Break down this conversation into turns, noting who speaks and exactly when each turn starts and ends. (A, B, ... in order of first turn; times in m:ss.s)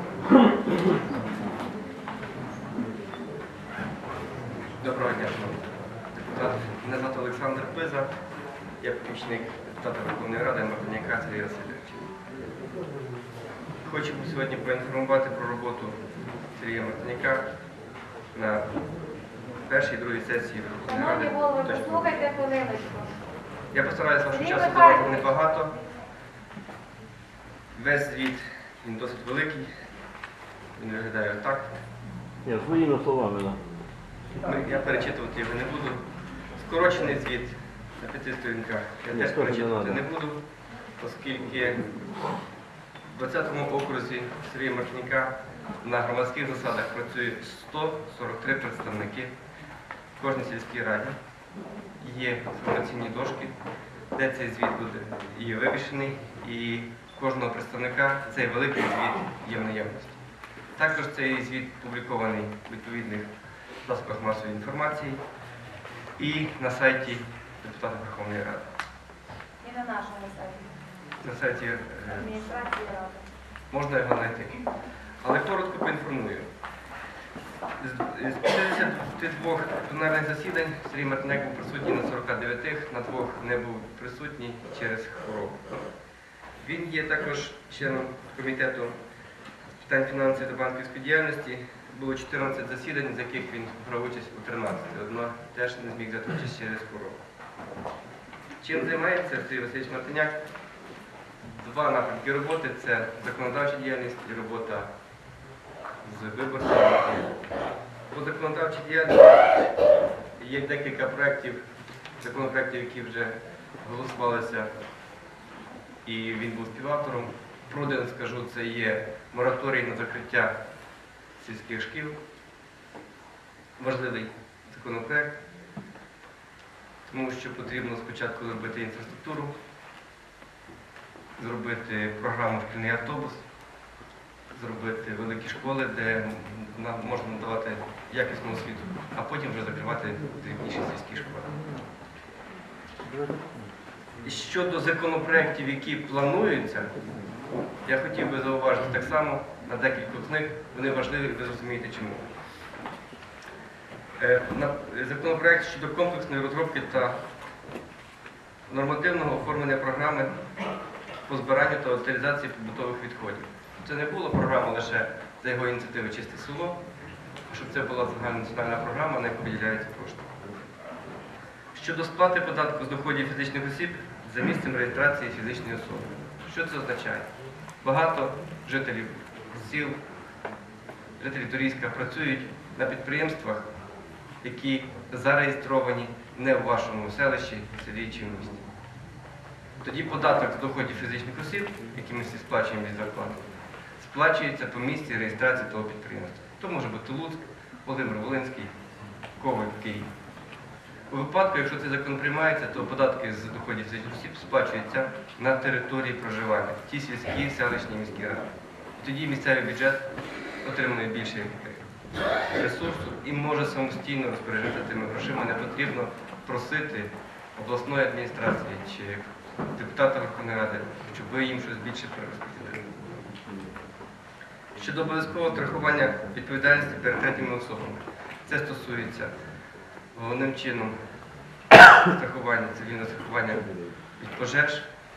0:04.8-0:08.1 A
0:08.8-0:12.1 A
0:13.8-0:16.0 A
0:16.5-0:17.4 A
0:18.3-0:18.6 A
0:19.7-0:22.0 A
0:20.8-0:23.1 B
0:23.7-0:25.7 A
0:24.3-0:25.3 B
0:27.7-0:29.7 A
0:30.8-0:31.7 A
0:32.4-0:33.6 C
0:34.4-0:36.0 A
0:36.6-0:40.4 A
0:39.1-0:40.0 C
0:41.0-0:41.8 A
0:43.1-0:49.3 A
0:50.2-0:51.2 A
0:52.0-0:53.5 A
0:54.1-1:00.2 A
1:00.8-1:03.3 A
1:03.8-1:05.2 A
1:06.2-1:08.6 A
1:09.6-1:10.7 B
1:11.2-1:12.3 A
1:12.1-1:13.2 B
1:13.7-1:14.6 A
1:15.2-1:16.5 A
1:17.8-1:25.7 A
1:26.6-1:28.9 A
1:29.8-1:37.2 A
1:38.6-1:40.4 A
1:41.6-1:44.9 A
1:46.0-1:47.3 A
1:48.1-1:49.4 A
1:50.4-1:51.6 A
1:52.2-1:54.7 A
1:56.0-2:00.5 A
2:01.4-2:02.2 A
2:03.8-2:05.4 A
2:07.1-2:09.5 A
2:11.4-2:13.4 A
2:14.5-2:21.5 A
2:24.2-2:26.9 A
2:27.8-2:32.3 A
2:34.2-2:37.2 A
2:38.7-2:40.3 A
2:41.2-2:46.8 A
2:47.5-2:50.3 A
2:51.7-2:57.3 A
2:57.8-3:00.0 A
3:01.2-3:03.7 A
3:04.4-3:08.6 A
3:09.8-3:13.4 A
3:14.0-3:18.7 A
3:19.4-3:20.1 A
3:21.1-3:30.1 A
3:30.6-3:31.8 A
3:32.5-3:42.9 A
3:44.8-3:49.3 A
3:50.1-3:50.9 A
3:52.0-3:53.6 A
3:54.2-3:54.8 A